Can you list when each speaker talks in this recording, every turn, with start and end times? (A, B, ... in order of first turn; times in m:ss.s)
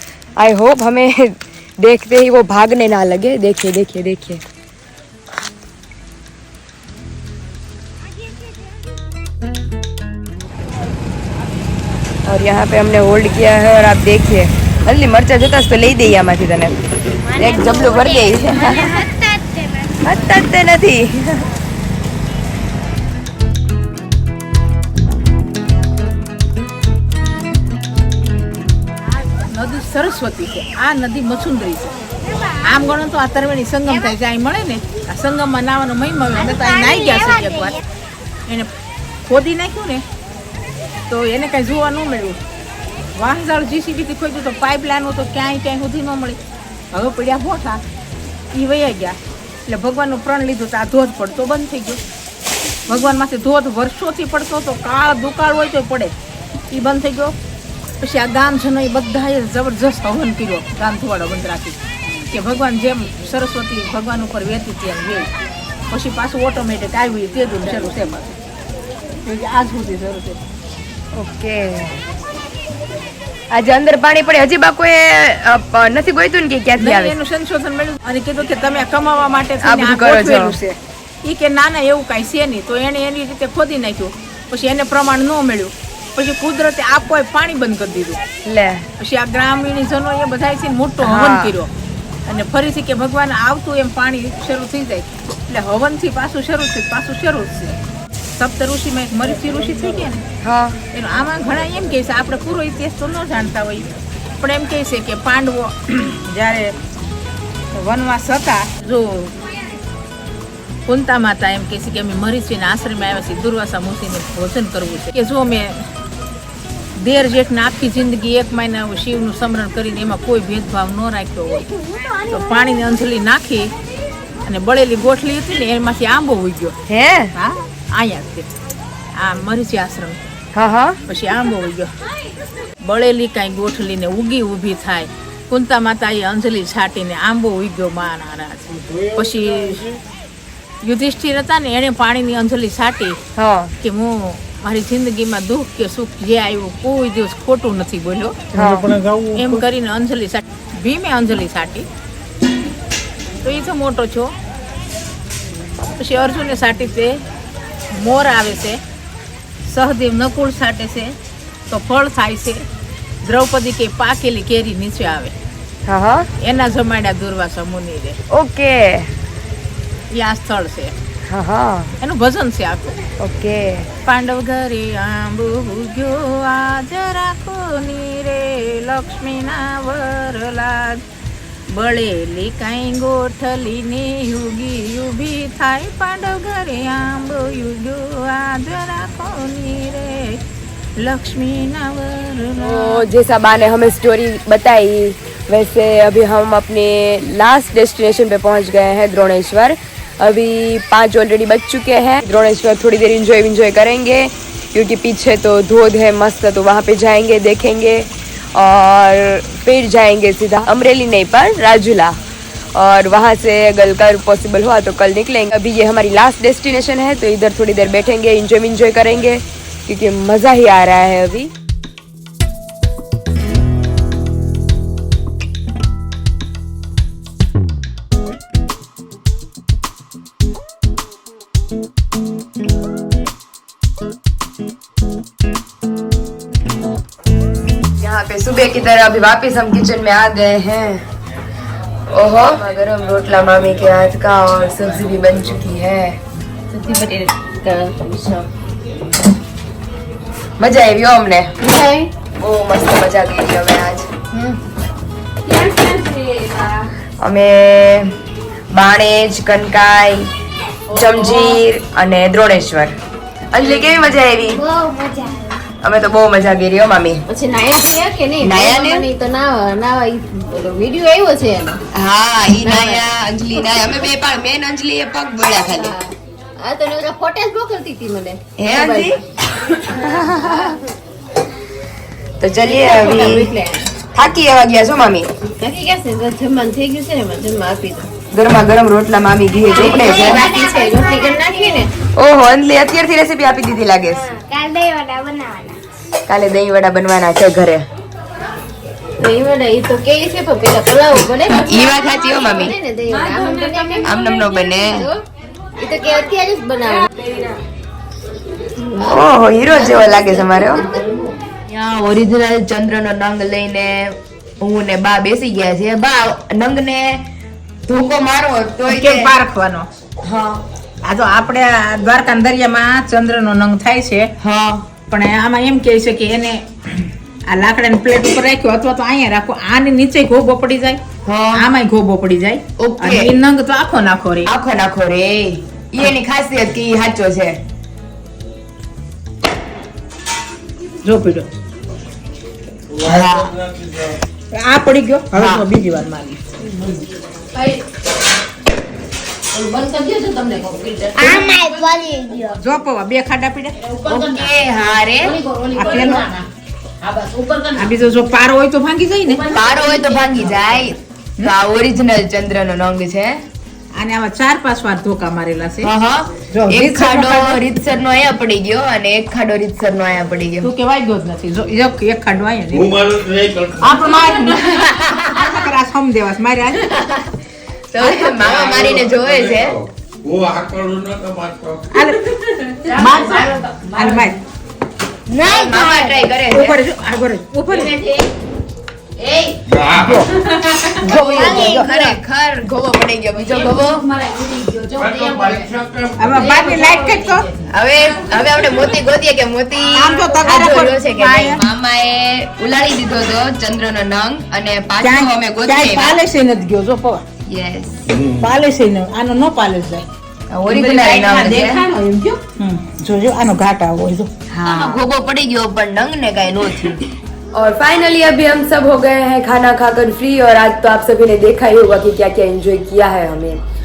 0:00.4-0:04.4 A
0:12.2-0:16.8 A
0:17.2-0:20.4 B
0:17.4-0:19.1 A
0:20.0-0:21.5 A
0:29.2-0:32.0 C
0:32.3-0:32.8 B
0:32.5-0:37.8 C
0:36.4-0:37.8 B
0:39.3-0:40.0 C
0:41.1-0:42.4 C
0:43.1-0:46.4 C
0:46.9-0:47.8 C
0:48.5-0:52.0 C
0:52.9-0:56.1 C
0:56.7-0:57.4 C
0:58.0-1:05.3 C
1:05.9-1:08.4 C
1:09.2-1:10.4 C
1:11.1-1:12.0 A
1:13.5-1:17.2 A
1:16.8-1:28.2 C
1:19.6-1:20.6 A
1:28.4-1:28.9 A
1:29.0-1:31.7 C
1:31.0-1:31.6 A
1:32.3-1:37.8 C
1:38.4-1:40.2 C
1:40.4-1:40.8 A
1:40.9-1:43.9 C
1:44.4-1:46.8 C
1:47.7-1:49.4 C
1:50.9-1:55.9 C
1:57.0-2:01.7 C
2:02.3-2:03.7 C
2:04.4-2:06.8 C
2:06.9-2:07.3 A
2:07.3-2:08.5 C
2:09.2-2:10.2 C
2:10.5-2:11.0 A
2:11.1-2:12.0 C
2:12.8-2:20.0 C
2:20.8-2:23.2 C
2:23.4-2:23.7 A
2:23.8-2:28.5 C
2:28.5-2:29.0 A
2:29.2-2:31.9 C
2:33.4-2:34.3 C
2:36.0-2:37.2 C
2:37.9-2:38.8 C
2:39.6-2:41.2 C
2:41.7-2:42.6 C
2:43.2-2:45.4 C
2:45.9-2:46.3 A
2:46.4-2:48.2 C
2:48.3-2:49.1 A
2:50.1-2:50.9 C
2:51.3-2:52.0 A
2:52.0-2:53.0 C
2:53.2-2:53.9 A
2:54.0-3:01.0 C
3:01.7-3:10.4 C
3:11.0-3:13.1 C
3:12.6-3:32.2 A
3:32.7-3:41.5 A
3:58.0-4:01.1 A
4:02.1-4:06.2 A
4:06.7-4:08.5 D
4:10.6-4:11.5 A
4:11.6-4:12.1 D
4:12.4-4:14.1 A
4:14.3-4:14.6 D
4:15.5-4:16.8 D
4:17.2-4:18.2 A
4:18.7-4:20.3 A
4:20.9-4:23.0 A
4:20.9-4:21.6 D
4:23.5-4:24.6 A
4:23.6-4:23.9 D
4:24.4-4:25.6 B
4:25.8-4:27.2 A
4:27.3-4:31.8 D
4:28.4-4:29.1 A
4:31.9-4:36.0 A
4:32.6-4:33.0 D
4:35.7-4:40.8 D
4:38.6-4:39.2 A
4:40.0-4:40.7 A
4:42.4-4:43.5 A
4:42.7-4:44.0 D
4:44.1-4:45.3 A
4:45.6-4:48.1 D
4:48.3-4:50.5 A
4:49.7-4:51.9 D
4:49.9-4:51.8 B
4:52.1-4:54.3 A
4:54.2-4:55.8 B
4:56.3-4:57.8 A
4:59.2-5:05.2 D
5:01.5-5:02.8 A
5:03.4-5:03.7 B
5:04.0-5:05.1 A
5:05.8-5:07.6 D
5:08.8-5:11.4 D
5:09.0-5:11.0 A
5:11.7-5:17.3 A
5:17.9-5:19.3 A
5:18.9-5:19.9 C
5:20.2-5:20.6 A
5:21.0-5:24.3 C
5:24.4-5:24.9 A
5:25.1-5:31.0 C
5:31.2-5:31.7 A
5:31.5-5:34.5 C
5:32.8-5:33.4 A
5:34.5-5:37.6 A
5:41.0-5:41.5 C
5:42.9-5:44.2 E
5:43.0-5:43.6 A
5:44.5-5:46.4 C
5:45.3-5:45.7 A
5:46.6-5:47.8 D
5:49.5-5:51.8 D
5:51.2-5:52.6 B
5:52.6-5:53.8 C
5:53.8-5:54.6 D
5:54.1-5:55.4 A
5:55.1-5:56.5 D
5:55.7-5:56.3 C
5:57.0-5:58.1 D
5:57.8-5:59.4 C
5:59.3-6:00.9 D
5:59.5-6:03.4 A
6:04.0-6:05.9 C
6:05.8-6:10.7 A
6:06.5-6:07.6 C
6:10.6-6:13.0 C
6:12.7-6:14.2 E
6:13.8-6:17.1 C
6:17.9-6:19.8 A
6:18.1-6:18.9 D
6:18.6-6:21.9 E
6:21.9-6:22.2 C
6:22.3-6:24.4 D
6:22.9-6:24.4 C
6:25.3-6:26.2 D
6:25.4-6:25.8 B
6:25.4-6:26.8 A
6:26.5-6:28.0 C
6:27.7-6:28.3 D
6:29.2-6:31.9 D
6:29.7-6:30.3 E
6:30.0-6:30.3 C
6:31.0-6:32.2 C
6:31.0-6:34.1 A
6:33.5-6:35.7 D
6:35.0-6:36.6 E
6:36.2-6:37.5 C
6:36.3-6:37.7 D
6:37.7-6:46.2 A
6:39.8-6:41.6 C
6:45.0-6:47.2 C
6:47.5-6:48.2 A
6:48.1-6:48.5 E
6:48.4-6:50.1 C
6:50.5-6:51.8 A
6:50.7-6:54.3 C
6:54.5-7:03.6 A